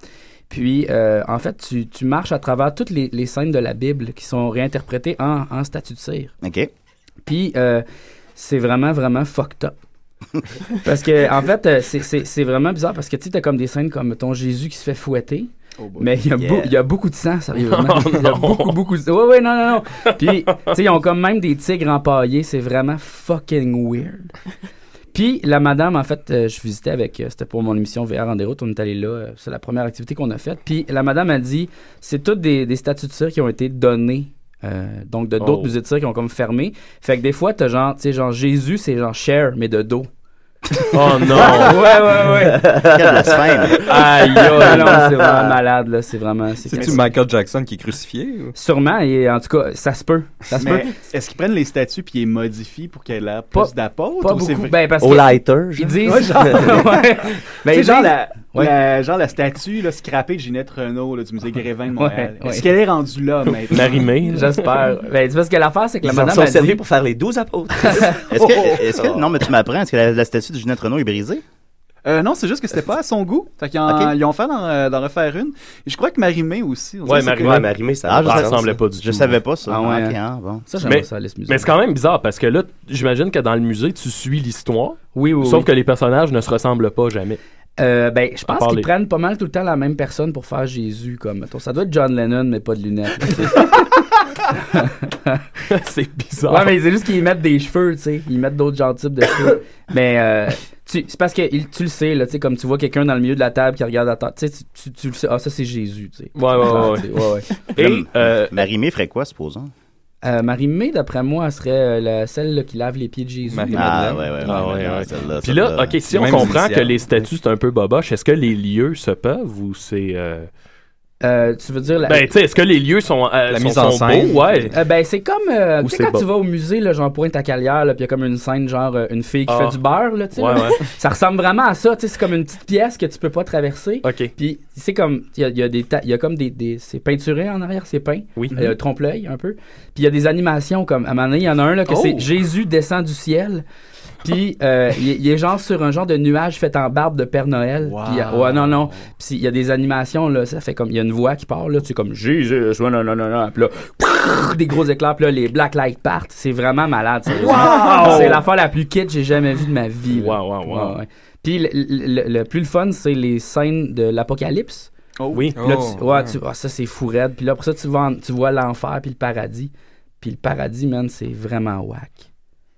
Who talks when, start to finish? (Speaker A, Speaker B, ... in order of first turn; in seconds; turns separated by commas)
Speaker A: 0.5-6.3, Speaker B: 6.4-6.7, Speaker A: 7.2-9.8, Speaker A: 10.8-24.3, Speaker C: 15.8-16.1, Speaker B: 16.4-16.7, Speaker D: 17.6-18.8, Speaker D: 20.2-20.8, Speaker A: 25.1-40.1, Speaker D: 35.4-35.7, Speaker D: 40.9-41.9, Speaker A: 40.9-42.7, Speaker E: 42.3-45.5, Speaker B: 42.6-44.0, Speaker D: 43.9-44.9, Speaker A: 43.9-47.1, Speaker F: 46.6-48.5, Speaker C: 46.8-47.1, Speaker A: 48.5-50.9, Speaker C: 50.5-54.8, Speaker A: 53.5-58.7, Speaker E: 55.0-56.5, Speaker C: 56.1-57.1, Speaker C: 57.7-64.1, Speaker A: 62.0-62.8, Speaker D: 63.7-64.7, Speaker A: 64.3-66.8, Speaker E: 66.0-68.2, Speaker B: 68.3-71.4, Speaker C: 68.3-69.0, Speaker E: 69.0-69.2, Speaker C: 72.0-77.6, Speaker B: 73.8-74.1, Speaker D: 77.0-77.7, Speaker E: 77.2-78.7, Speaker B: 78.0-80.6, Speaker D: 78.2-79.4, Speaker A: 79.7-80.2, Speaker A: 80.7-81.7, Speaker D: 80.8-87.4, Speaker A: 85.1-85.7, Speaker A: 87.8-93.9, Speaker D: 88.5-88.9, Speaker A: 94.5-95.4, Speaker D: 95.7-96.7, Speaker A: 96.5-107.5, Speaker D: 106.3-108.7, Speaker B: 107.8-109.7, Speaker A: 110.2-114.0, Speaker F: 113.5-114.4, Speaker B: 113.7-116.0, Speaker D: 114.4-120.5, Speaker F: 116.1-117.0, Speaker A: 121.2-122.3, Speaker D: 122.0-124.7, Speaker F: 123.5-124.7, Speaker A: 124.7-143.6, Speaker D: 125.8-126.2, Speaker D: 129.5-129.8, Speaker D: 130.3-130.8, Speaker D: 134.0-134.3, Speaker C: 141.9-142.2, Speaker A: 144.2-164.9, Speaker C: 147.8-149.0, Speaker C: 157.3-158.4, Speaker D: 157.8-158.3, Speaker D: 160.1-161.0, Speaker C: 165.2-165.5, Speaker F: 165.5-166.3, Speaker A: 165.6-172.2